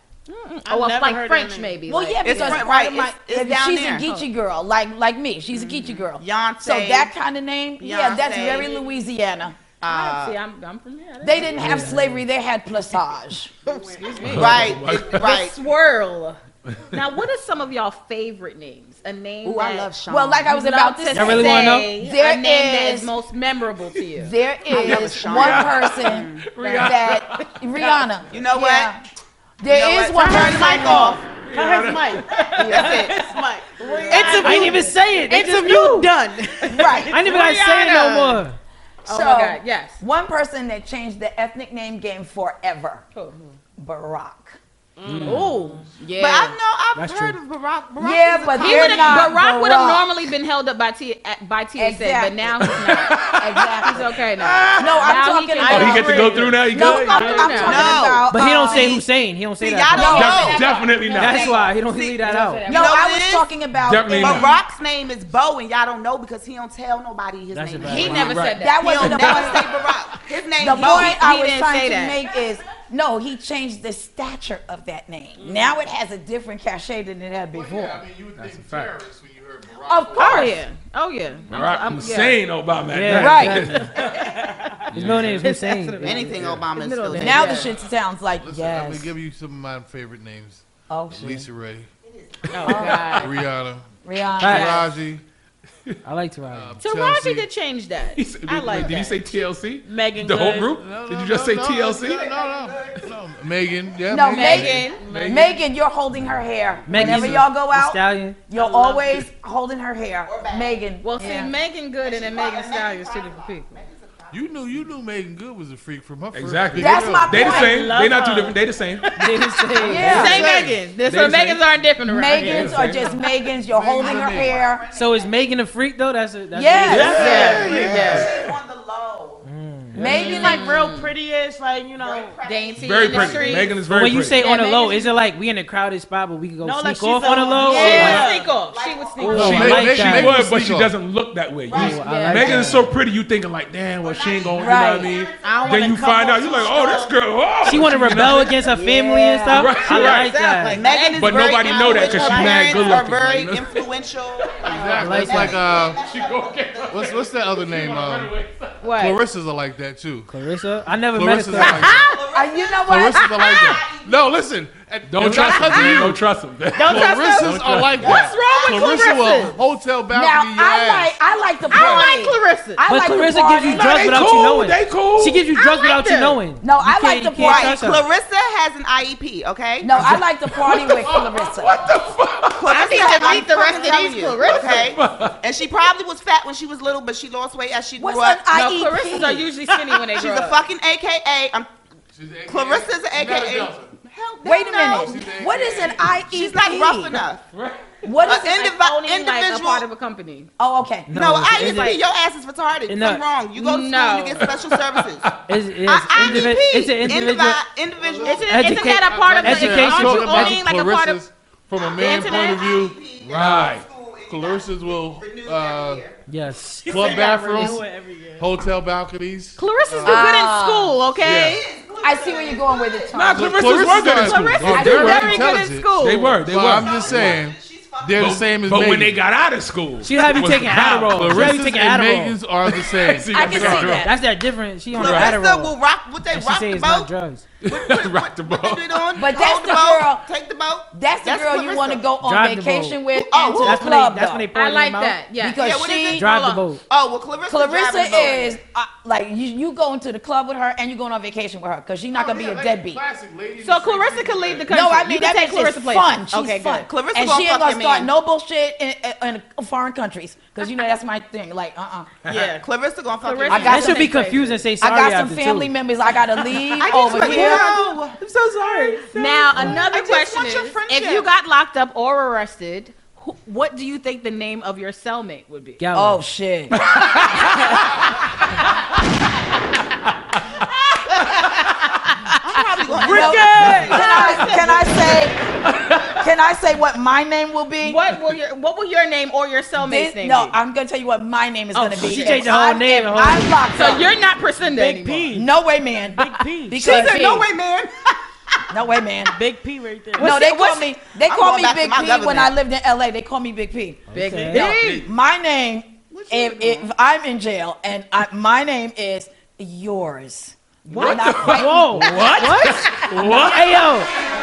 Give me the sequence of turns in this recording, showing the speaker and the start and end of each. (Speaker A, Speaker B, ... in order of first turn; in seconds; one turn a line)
Speaker A: 0.3-2.6
Speaker B: 0.7-1.8
Speaker C: 1.9-9.6
Speaker D: 2.2-4.1
Speaker D: 5.5-7.1
Speaker D: 7.8-8.8
Speaker D: 9.8-10.4
Speaker A: 9.8-11.9
Speaker C: 11.2-13.5
Speaker E: 11.6-12.2
Speaker B: 13.7-14.4
Speaker A: 13.8-16.4
Speaker F: 14.2-15.3
Speaker D: 14.3-15.6
Speaker F: 16.7-17.0
Speaker A: 16.9-24.3
Speaker D: 19.4-20.5
Speaker C: 20.1-23.1
Speaker E: 21.1-21.9
Speaker C: 24.1-29.0
Speaker D: 24.7-26.4
Speaker F: 24.8-27.5
Speaker A: 26.6-26.9
Speaker D: 28.3-28.9
Speaker C: 29.6-31.2
Speaker D: 29.7-31.3
Speaker B: 31.4-37.4
Speaker F: 31.4-32.6
Speaker C: 32.6-33.0
Speaker D: 32.6-33.3
Speaker A: 33.8-34.9
Speaker D: 33.9-34.4
Speaker E: 34.1-36.1
Speaker C: 36.7-37.1
Speaker A: 36.8-38.4
Speaker E: 37.1-38.6
Speaker C: 39.0-43.0
Speaker A: 39.0-40.0
Speaker C: 43.8-44.6
Speaker B: 45.0-45.8
Speaker F: 45.0-45.5
Speaker A: 45.2-46.5
Speaker D: 46.2-49.3
Speaker E: 46.9-47.4
Speaker C: 48.0-50.2
Speaker A: 48.5-53.3
Speaker C: 51.8-54.1
Speaker F: 52.6-55.1
Speaker A: 53.8-58.1
Speaker C: 54.8-59.0
Speaker F: 55.6-57.8
Speaker B: 56.2-56.6
Speaker D: 57.5-59.0
Speaker E: 58.3-60.3
Speaker D: 59.6-63.5
Speaker C: 59.9-60.5
Speaker A: 59.9-61.6
Speaker F: 60.1-61.6
Speaker E: 61.1-62.6
Speaker A: 62.2-63.0
Speaker C: 62.7-64.5
Speaker F: 63.8-64.5
Speaker D: 64.1-71.2
Speaker E: 67.5-68.3
Speaker A: 67.8-69.5
Speaker F: 68.1-69.5
Speaker C: 68.5-69.7
Speaker C: 70.6-78.0
Speaker A: 70.7-72.2
Speaker B: 75.4-75.7
Speaker G: 77.5-80.6
Speaker F: 78.4-79.0
Speaker C: 79.8-80.6
Speaker A: 80.2-82.4
Speaker F: 81.5-83.9
Speaker E: 82.9-83.9
Speaker C: 83.1-83.7
Speaker B: 84.0-84.8
Speaker A: 84.0-84.3
Speaker F: 84.9-85.5
Speaker E: 84.9-86.3
Speaker A: 85.4-87.7
Speaker D: 86.0-87.7
Speaker G: 86.3-86.7
Speaker C: 87.1-89.1
Speaker G: 88.4-91.9
Speaker C: 90.9-91.5
Speaker D: 92.0-92.9
Speaker A: 92.5-93.3
Speaker B: 92.6-92.9
Speaker C: 92.6-93.2
Speaker G: 93.2-93.9
Speaker C: 94.0-94.8
Speaker E: 94.4-94.7
Speaker G: 94.4-95.2
Speaker A: 94.5-94.9
Speaker E: 96.0-96.7
Speaker G: 96.5-97.5
Speaker A: 96.8-99.2
Speaker F: 98.2-102.3
Speaker G: 98.7-99.0
Speaker B: 99.8-100.8
Speaker G: 100.7-105.4
Speaker D: 101.8-103.1
Speaker C: 104.1-111.5
Speaker A: 104.3-105.1
Speaker D: 104.7-105.1
Speaker B: 104.9-105.6
Speaker E: 106.9-108.4
Speaker G: 106.9-107.4
Speaker B: 108.6-109.2
Speaker D: 110.2-110.8
Speaker A: 111.0-113.8
Speaker D: 112.0-114.9
Speaker G: 114.3-117.4
Speaker F: 116.3-119.1
Speaker C: 116.8-117.9
Speaker B: 117.3-118.7
Speaker E: 119.2-120.4
Speaker A: 119.8-122.8
Speaker C: 119.8-120.4
Speaker G: 120.2-120.6
Speaker F: 120.3-121.6
Speaker C: 122.0-124.8
Speaker B: 122.3-122.7
Speaker F: 122.4-123.1
Speaker G: 122.6-122.9
Speaker G: 123.5-124.6
Speaker D: 123.9-125.5
Speaker E: 124.9-127.3
Speaker C: 126.5-127.4
Speaker B: 126.9-127.9
Speaker F: 126.9-128.5
Speaker A: 127.0-128.3
Speaker D: 127.2-129.4
Speaker E: 129.4-130.0
Speaker C: 129.9-130.7
Speaker B: 130.0-132.4
Speaker A: 130.0-131.1
Speaker D: 131.9-133.7
Speaker A: 132.4-133.8
Speaker F: 132.8-134.4
Speaker E: 133.9-138.2
Speaker A: 134.4-135.1
Speaker B: 136.6-138.5
Speaker D: 137.6-139.8
Speaker A: 137.6-139.8
Speaker F: 137.9-138.3
Speaker E: 139.2-140.4
Speaker F: 139.3-148.5
Speaker G: 139.3-141.0
Speaker D: 141.7-142.7
Speaker E: 141.7-142.9
Speaker A: 141.9-142.7
Speaker D: 144.0-146.7
Speaker C: 144.6-145.1
Speaker A: 145.4-146.0
Speaker B: 145.6-147.1
Speaker E: 147.6-150.8
Speaker C: 148.7-149.6
Speaker F: 149.5-150.4
Speaker A: 149.8-152.6
Speaker D: 150.7-157.3
Speaker F: 151.2-153.9
Speaker B: 152.0-152.8
Speaker F: 154.4-154.7
Speaker G: 154.7-156.0
Speaker E: 154.9-155.6
Speaker F: 155.8-158.9
Speaker G: 156.9-158.3
Speaker A: 158.8-159.2
Speaker G: 158.9-160.3
Speaker E: 160.3-161.9
Speaker G: 161.0-162.2
Speaker A: 161.6-162.2
Speaker D: 161.8-164.3
Speaker C: 162.3-163.3
Speaker G: 162.8-166.2
Speaker F: 165.1-168.0
Speaker A: 165.2-166.0
Speaker A: 166.7-169.6
Speaker G: 166.8-171.2
Speaker D: 168.0-169.6
Speaker C: 170.1-174.1
Speaker A: 171.7-172.8
Speaker E: 172.9-178.0
Speaker F: 173.7-175.5
Speaker A: 175.5-176.4
Speaker C: 176.6-177.8
Speaker D: 177.4-180.1
Speaker C: 179.8-181.9
Speaker F: 180.6-182.8
Speaker D: 182.5-188.4
Speaker A: 182.7-184.9
Speaker F: 184.7-185.4
Speaker C: 188.0-189.5
Speaker A: 188.5-190.6
Speaker D: 190.1-191.7
Speaker G: 192.1-193.9
Speaker D: 192.5-195.3
Speaker C: 194.4-197.2
Speaker G: 194.9-196.2
Speaker D: 196.2-197.5
Speaker F: 197.5-198.0
Speaker C: 198.0-198.7
Speaker D: 198.2-199.8
Speaker A: 198.4-200.5
Speaker C: 200.6-201.2
Speaker E: 201.1-202.0
Speaker D: 201.1-205.3
Speaker A: 201.4-202.0
Speaker E: 202.9-203.2
Speaker A: 203.5-204.5
Speaker F: 204.4-205.4
Speaker E: 205.5-207.6
Speaker D: 205.8-208.7
Speaker G: 206.2-206.4
Speaker G: 208.0-213.7
Speaker A: 208.2-211.2
Speaker E: 208.5-210.6
Speaker D: 211.8-216.2
Speaker A: 212.0-212.7
Speaker F: 213.3-213.8
Speaker G: 214.3-216.0
Speaker E: 216.3-216.9
Speaker B: 216.8-218.6
Speaker G: 216.8-217.8
Speaker G: 218.4-220.2
Speaker A: 219.6-221.6
Speaker C: 220.0-221.0
Speaker D: 221.2-223.4
Speaker F: 221.2-221.6
Speaker C: 222.0-223.9
Speaker F: 223.1-227.4
Speaker G: 223.3-229.2
Speaker A: 223.8-226.4
Speaker C: 224.6-225.4
Speaker D: 226.7-228.4
Speaker F: 228.2-231.7
Speaker E: 230.0-232.4
Speaker G: 231.1-234.0
Speaker F: 232.7-234.1
Speaker C: 233.3-234.1
Speaker E: 233.9-235.8
Speaker D: 234.9-237.1
Speaker F: 234.9-235.3
Speaker E: 236.3-237.4
Speaker F: 237.6-239.0
Speaker D: 237.7-242.0
Speaker C: 239.2-240.2
Speaker C: 240.9-244.5
Speaker E: 242.2-243.0
Speaker D: 243.1-243.9
Speaker E: 243.6-245.2
Speaker A: 244.5-246.6
Speaker C: 245.4-246.2
Speaker D: 245.6-246.3
Speaker E: 246.1-246.8
Speaker D: 246.8-248.6
Speaker C: 247.5-253.0
Speaker G: 252.1-254.7
Speaker A: 253.6-256.9
Speaker C: 254.7-262.1
Speaker D: 256.7-258.1
Speaker A: 262.3-262.6
Speaker D: 262.3-264.1
Speaker A: 263.2-264.5
Speaker C: 263.5-267.9
Speaker E: 263.6-265.7
Speaker D: 266.8-271.3
Speaker E: 267.2-269.1
Speaker A: 269.1-275.8
Speaker E: 275.8-276.2
Speaker C: 275.9-276.8
Speaker F: 276.8-277.9
Speaker A: 277.3-277.8
Speaker A: 281.0-282.1
Speaker D: 282.4-284.0
Speaker B: 283.0-284.6
Speaker C: 283.0-285.4
Speaker A: 283.1-285.2
Speaker F: 285.6-286.2
Speaker C: 286.1-288.0
Speaker A: 287.8-290.5
Speaker C: 289.8-294.1
Speaker A: 291.7-292.5
Speaker E: 291.9-293.6
Speaker A: 293.7-295.3
Speaker B: 294.6-295.5
Speaker C: 295.3-297.4
Speaker B: 296.2-296.9
Speaker D: 296.8-298.0
Speaker A: 296.8-297.4
Speaker C: 298.7-299.3
Speaker B: 299.3-300.3
Speaker C: 300.2-312.0
Speaker A: 300.2-300.8
Speaker D: 301.2-302.5
Speaker E: 304.1-304.7
Speaker A: 304.1-305.1
Speaker D: 306.1-306.9
Speaker F: 310.9-313.9
Speaker E: 311.4-314.1
Speaker A: 312.1-313.1